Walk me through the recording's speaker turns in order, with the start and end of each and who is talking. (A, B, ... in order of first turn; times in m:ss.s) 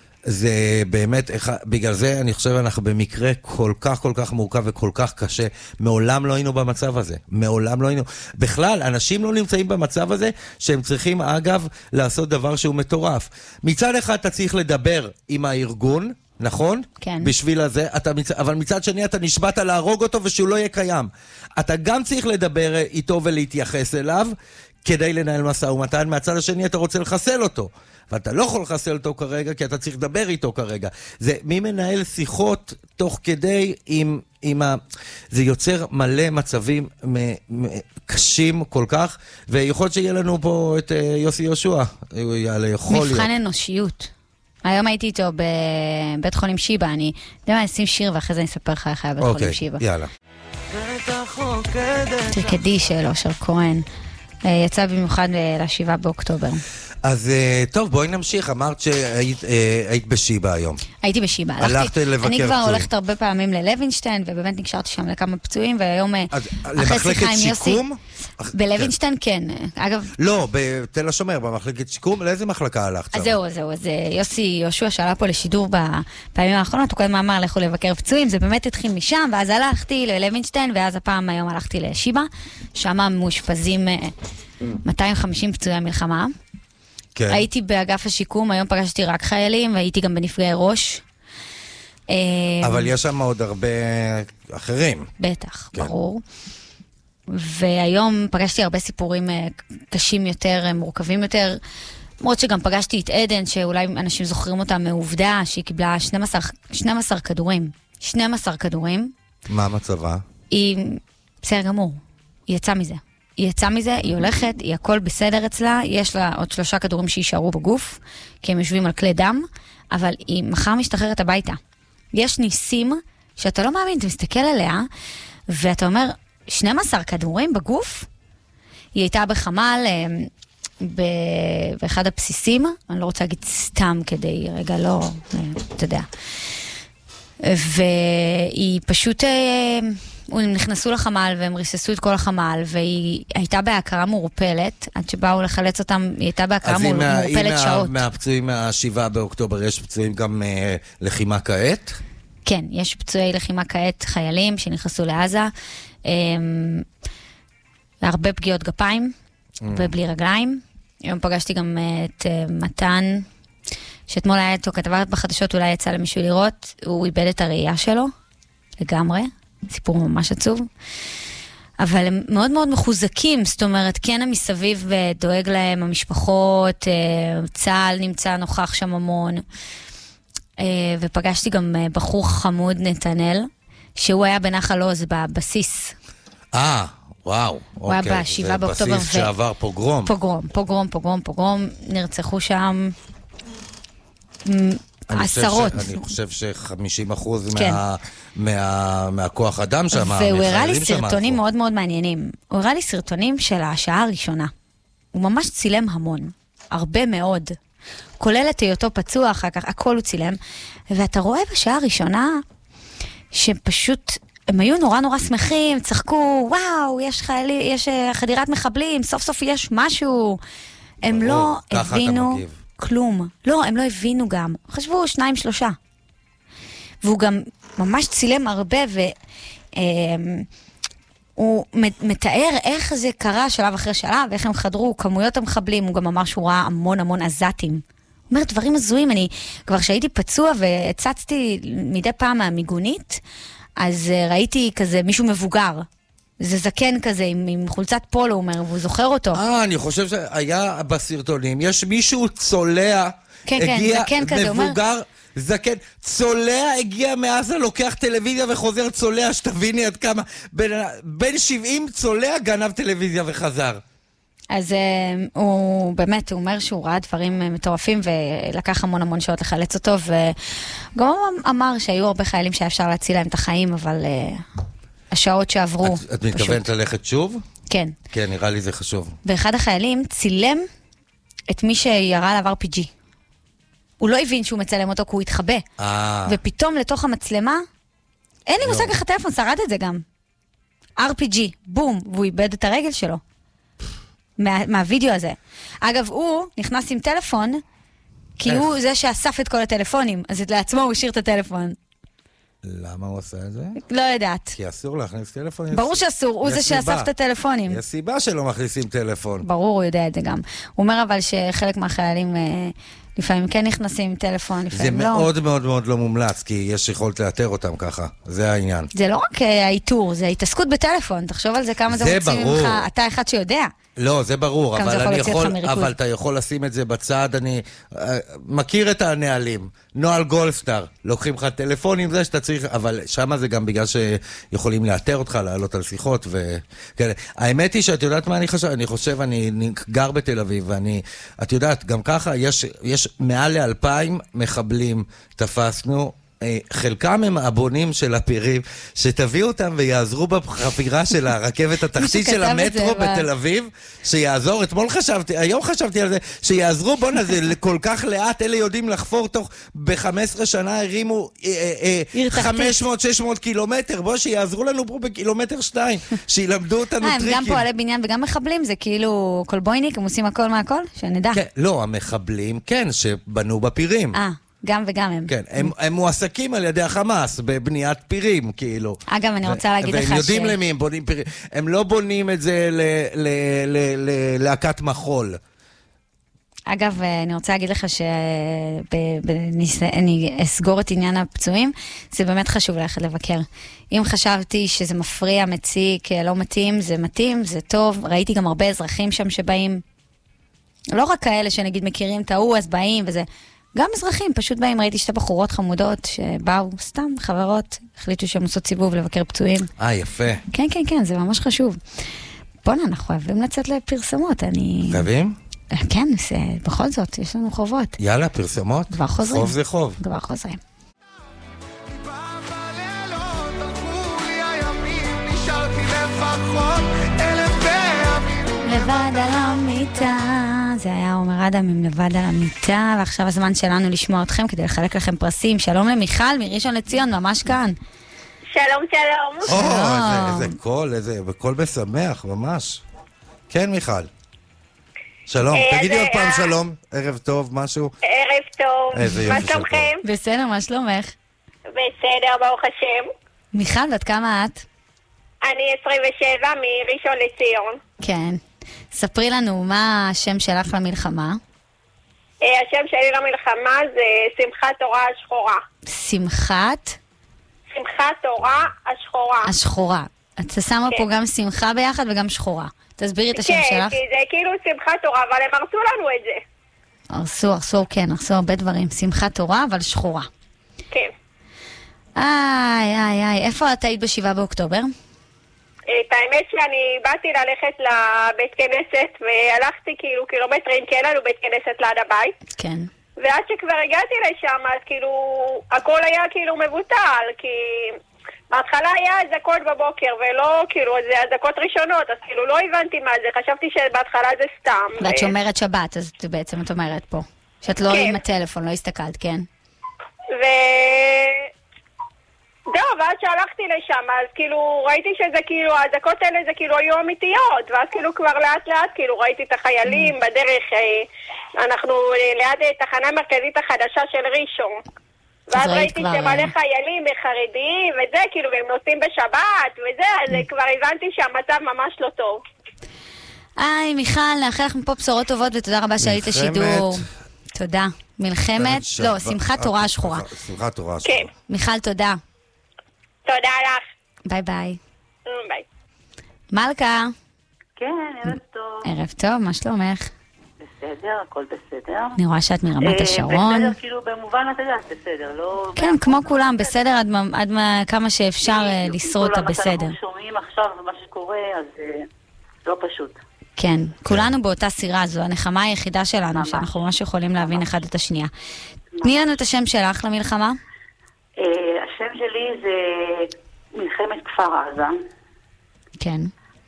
0:00.3-0:34.8 A
0:17.0-0:17.3 B
0:35.3-0:43.3 A
0:42.9-0:44.1 B
0:44.6-0:49.8 B
0:49.2-0:50.1 A
0:50.7-0:52.6 A
0:52.3-0:53.8 B
0:54.4-0:56.6 B
0:57.0-1:00.8 A
1:01.0-1:07.8 B
1:01.6-1:02.9 A
1:06.3-1:08.9 A
1:08.5-1:10.1 B
1:10.2-1:13.4 A
1:13.1-1:24.1 B
1:24.8-1:26.3 B
1:27.2-1:27.4 A
1:27.3-1:31.0 B
1:32.1-1:32.9 B
1:32.6-1:35.1 A
1:35.2-1:36.2 B
1:37.3-1:41.6 B
1:42.2-1:49.1 B
1:49.5-1:50.2 A
1:50.5-2:01.6 B
2:02.1-2:04.9 B
2:05.5-2:08.1 B
2:09.0-2:10.3 B
2:10.8-2:16.1 B
2:17.4-2:28.0 B
2:26.6-2:32.0 A
2:32.5-2:35.5 B
2:36.0-2:36.9 B
2:38.0-2:39.1 B
2:39.6-2:40.0 A
2:39.7-2:43.3 B
2:44.1-2:48.1 B
2:48.8-2:50.7 B
2:51.8-2:59.4 B
3:00.6-3:06.0 B
3:06.5-3:10.1 A
3:07.9-3:09.3 B
3:10.0-3:12.9 B
3:14.4-3:16.1 B
3:15.1-3:21.4 A
3:17.5-3:17.8 B
3:19.9-3:24.5 B
3:25.1-3:27.6 B
3:28.2-3:30.4 B
3:30.9-3:32.4 B
3:33.3-3:40.4 B
3:41.0-3:42.6 A
3:41.0-3:45.8 B
3:47.0-3:49.1 B
3:49.8-3:50.5 B
3:51.4-4:03.2 B
4:03.8-4:05.9 B
4:06.4-4:09.4 B
4:09.3-4:23.8 A
4:13.5-4:14.8 B
4:24.5-4:30.4 B
4:31.0-4:34.4 B
4:35.1-4:36.7 B
4:35.8-4:37.4 A
4:37.7-4:38.0 B
4:38.1-4:39.2 A
4:39.2-4:40.7 B
4:41.5-4:42.9 B
4:44.0-4:45.6 B
4:45.8-4:46.4 A
4:46.3-4:47.6 B
4:48.5-4:50.0 B
4:48.6-4:49.0 A
4:51.0-4:53.2 B
4:54.4-4:57.6 B
4:58.4-5:01.8 B
5:02.6-5:03.8 A
5:03.8-5:04.6 B
5:04.6-5:07.1 A
5:05.7-5:07.8 B
5:07.7-5:09.5 A
5:09.4-5:15.3 B
5:14.7-5:18.9 A
5:18.9-5:23.7 B
5:21.9-5:22.9 A
5:24.0-6:07.6 A
5:24.8-5:25.9 B
5:52.0-5:53.3 B
6:02.1-6:02.8 B
6:07.0-6:11.4 B
6:11.3-6:14.2 A
6:14.1-6:15.7 B
6:15.3-6:25.4 A
6:19.1-6:20.6 B
6:26.7-6:39.8 B
6:40.9-6:49.7 B
6:49.8-6:50.4 A
6:50.5-6:51.8 B
6:52.6-6:55.1 B
6:54.9-6:55.4 A
6:55.7-6:58.0 B
6:58.0-7:00.0 A
6:58.9-7:00.6 B
7:01.9-7:09.3 C
7:08.6-7:17.8 B
7:18.5-7:19.5 D
7:19.5-7:20.6 B
7:19.5-7:22.8 A
7:23.5-7:24.1 A
7:25.3-7:28.0 A
7:25.5-7:26.6 D
7:28.0-7:30.0 D
7:28.9-7:29.9 A
7:30.0-7:31.2 B
7:31.7-7:33.1 D
7:33.5-7:34.7 B
7:35.4-7:37.8 D
7:38.0-7:38.4 B
7:38.9-7:41.4 B
7:42.4-7:45.6 D
7:45.9-7:47.0 B
7:47.7-7:49.5 D
7:49.4-7:54.0 B
7:53.4-7:56.4 D
7:57.1-8:00.3 B
8:02.2-8:04.9 B
8:05.9-8:12.4 D
8:12.6-8:12.9 B
8:13.2-8:18.0 D
8:18.5-8:25.3 D
8:25.0-8:29.5 B
8:27.9-8:28.2 D
8:30.4-8:31.5 D
8:32.7-8:44.8 D
8:45.5-8:52.4 D
8:45.5-8:46.5 B
8:53.6-9:00.3 B
8:56.0-8:57.1 A
8:58.6-9:01.3 A
9:01.0-9:01.3 D
9:01.5-9:02.2 B
9:03.2-9:03.8 D
9:04.3-9:04.8 B
9:05.3-9:05.6 D
9:06.5-9:07.1 B
9:07.8-9:08.9 E
9:08.8-9:10.1 B
9:10.6-9:12.2 E
9:12.2-9:13.8 B
9:12.8-9:16.7 E
9:15.8-9:20.0 B
9:18.4-9:22.1 E
9:22.6-9:23.2 E
9:23.6-9:28.3 B
9:24.1-9:24.3 A
9:26.3-9:26.7 E
9:27.4-9:27.7 E
9:29.0-9:30.6 B
9:31.4-9:35.0 E
9:36.0-9:36.3 B